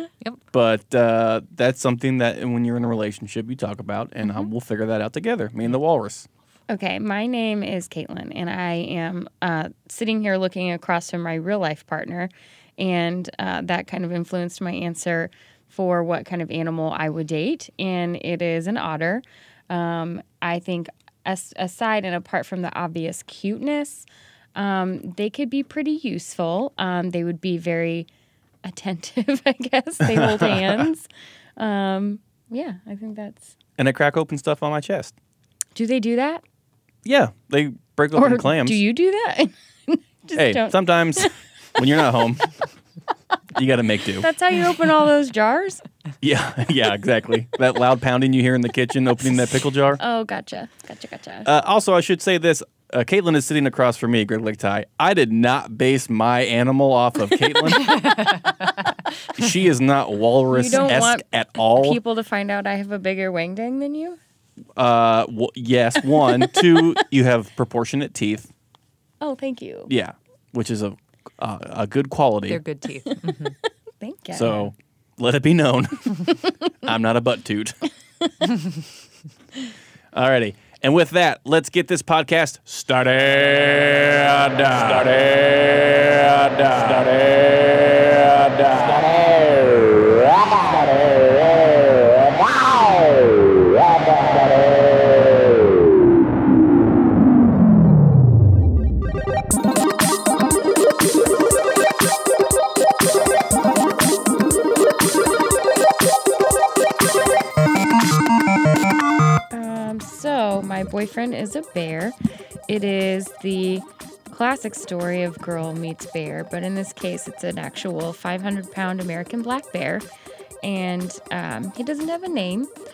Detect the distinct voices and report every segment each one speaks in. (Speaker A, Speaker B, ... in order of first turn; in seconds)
Speaker A: 0.5-6.3, 30.1-30.9, 33.8-35.1, 37.0-38.8, 40.4-42.6, 43.5-44.3, 46.2-50.0, 51.5-58.1, 59.4-62.0, 64.8-68.5, 69.9-72.6, 74.3-77.9, 80.1-89.1
Speaker B: 4.2-4.5, 6.7-28.1, 28.6-33.6, 35.8-36.4, 38.1-41.3, 44.2-45.8, 50.0-51.5, 60.5-64.2, 66.4-66.7, 69.2-69.9, 74.0-74.7, 109.5-112.2, 112.7-120.1, 120.6-122.7
Speaker C: 57.8-59.0, 72.5-73.6